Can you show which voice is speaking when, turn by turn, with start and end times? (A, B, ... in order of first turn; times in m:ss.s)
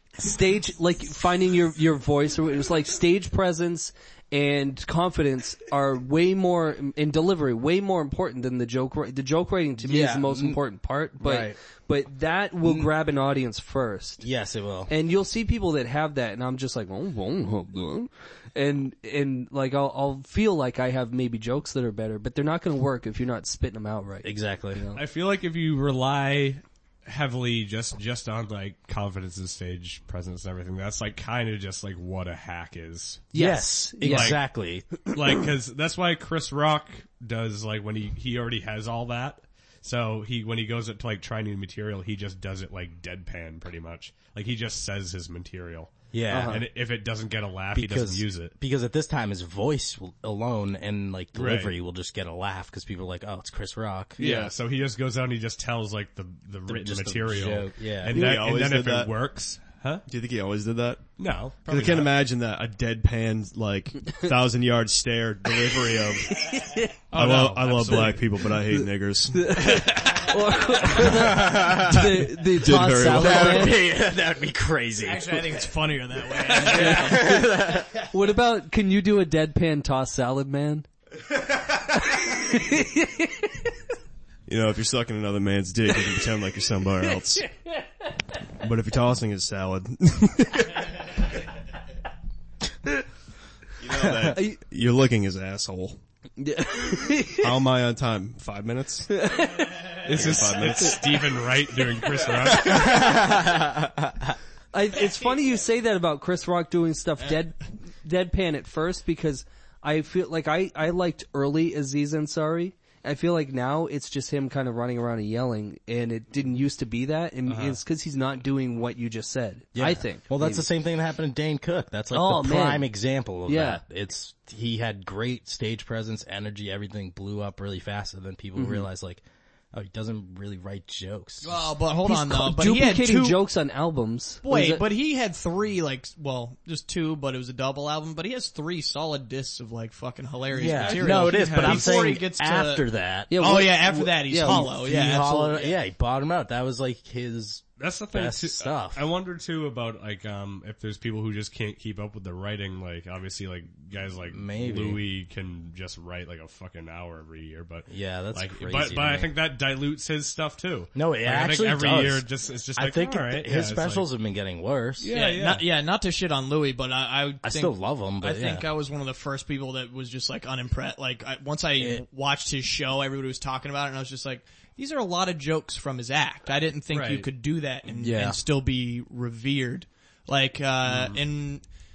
0:00.2-0:14.2 A
0:09.8-0:10.6 B
0:11.2-0:11.6 B
0:14.2-0:14.9 B
0:14.9-0:25.0 A
0:24.2-0:24.8 B
0:24.9-0:33.3 C
0:33.3-0:34.4 A
0:33.3-0:35.0 B
0:34.0-0:34.4 C
0:35.0-0:48.5 C
0:46.1-0:46.6 B
0:46.3-0:46.6 A
0:47.7-0:54.2 B
0:51.3-0:51.8 C
0:54.2-1:00.0 C
0:56.7-0:58.3 B
0:58.1-0:59.1 D
1:00.1-1:06.6 D
1:01.2-1:02.1 C
1:06.4-1:06.9 A
1:07.1-1:08.2 C
1:07.1-1:10.0 D
1:08.7-1:13.8 A
1:11.0-1:12.1 B
1:12.4-1:13.7 D
1:13.0-1:15.6 B
1:15.0-1:17.3 E
1:16.4-1:18.0 B
1:16.6-1:20.9 A
1:21.9-1:23.6 A
1:24.5-1:27.4 D
1:28.6-1:30.9 D
1:33.8-1:36.0 D
1:34.3-1:34.6 A
1:36.4-1:37.5 A
1:37.4-1:39.1 D
1:39.1-1:41.0 A
1:40.0-1:43.3 C
1:40.0-1:41.2 D
1:42.7-1:43.1 A
1:42.9-1:43.6 B
1:44.7-2:00.6 A
1:57.5-1:57.8 C
1:59.7-2:09.2 B
2:02.1-2:02.9 A
2:03.5-2:03.8 A
2:08.6-2:08.8 A
2:09.7-2:11.7 B
2:11.4-2:13.4 E
2:12.0-2:14.8 A
2:14.4-2:22.8 E
2:20.5-2:23.4 B
2:20.8-2:22.1 C
2:23.3-2:24.7 A
2:23.4-2:25.8 E
2:24.3-2:29.0 B
2:27.8-2:44.1 C
2:34.3-2:35.0 B
2:37.9-2:39.3 B
2:40.9-2:45.1 B
2:45.0-2:45.6 C
2:45.1-3:01.6 E
2:47.4-2:48.6 B
2:51.8-2:52.0 B
2:56.9-2:57.3 C
2:57.9-2:58.4 B